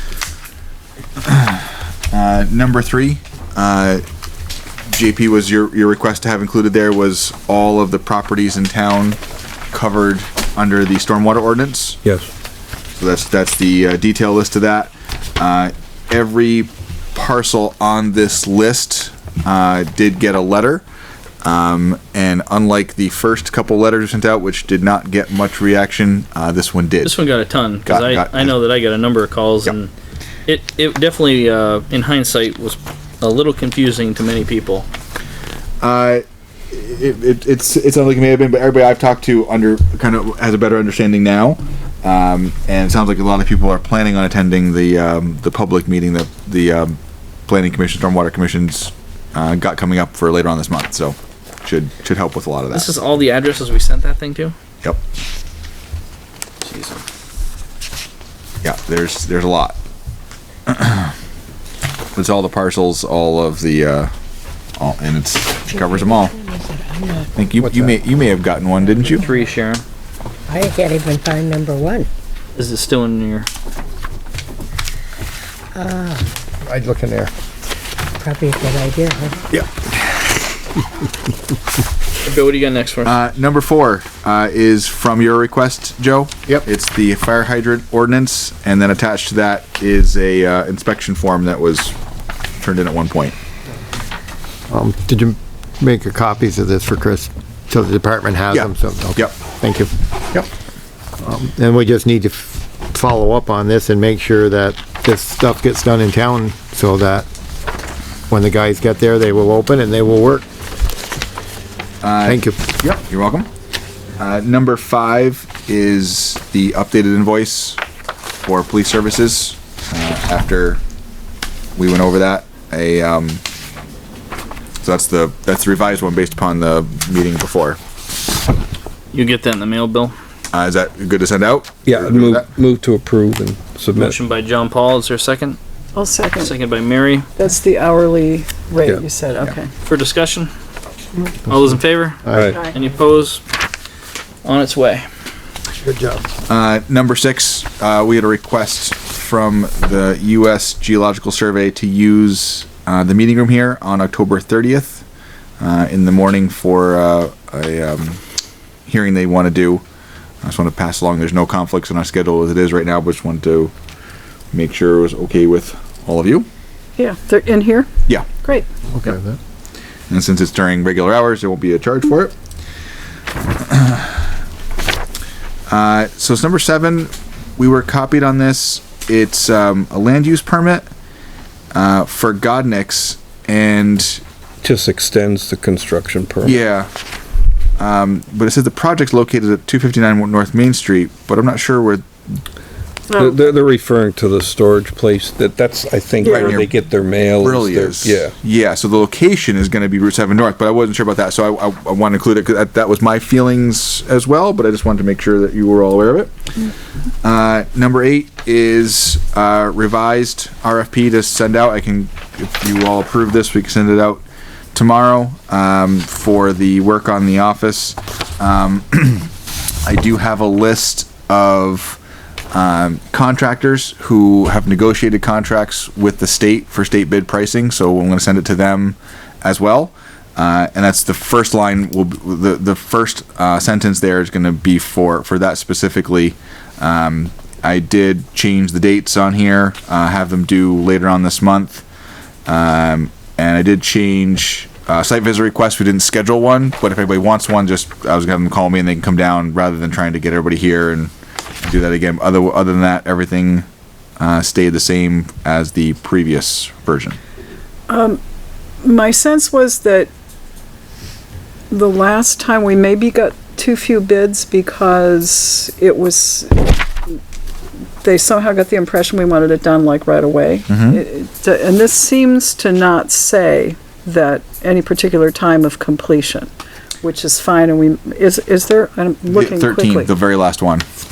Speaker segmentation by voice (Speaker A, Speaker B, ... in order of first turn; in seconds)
Speaker A: 1.2-4.0, 4.9-9.2, 9.7-12.0, 13.0-20.8, 21.4-27.1, 27.9-28.6, 35.8-52.9, 58.6-59.8, 60.7-61.1, 62.1-64.1, 64.8-66.3, 67.3-69.2, 79.5-80.3, 83.0-92.0, 92.6-93.3, 98.5-99.3, 112.0-113.5, 114.2-117.8, 118.4-120.8, 121.8-123.4, 124.8-127.8, 130.5-132.5, 146.5-155.0, 155.6-158.2, 158.8-159.8, 160.4-163.7, 164.5-166.5, 170.1-172.3, 173.6-174.1, 175.7-180.9, 181.7-184.2, 186.4-186.9, 187.8-192.0, 196.2-196.7, 197.4-206.3, 207.2-214.2, 214.7-219.3, 219.8-222.0, 222.5-241.8, 242.4-251.1, 251.6-253.7, 254.2-257.2, 270.7-271.0, 279.3-280.9
Speaker B: 12.0-12.3, 131.8-134.2, 184.6-186.6, 193.2-198.3
Speaker C: 27.0-29.9, 30.5-34.9, 52.7-54.5, 56.6-57.0, 69.0-69.8, 72.5-73.5, 82.2-83.1, 129.1-130.1, 133.9-135.6, 136.4-137.3, 139.8-140.5, 141.4-143.4, 144.4-145.1
Speaker D: 65.7-67.3, 69.0-69.5, 70.5-72.1, 75.7-76.3, 78.2-79.4
Speaker E: 67.6-67.9, 76.6-77.3, 94.7-99.9, 101.2-107.3, 108.3-110.5, 112.2-112.6, 142.2-142.5, 145.8-146.2, 168.9-169.4
Speaker F: 135.9-136.5, 137.4-139.7, 167.0-167.9, 193.1-193.5, 196.2-196.6, 257.9-258.2, 258.8-260.1, 261.7-267.1, 268.0-276.5, 277.0-280.1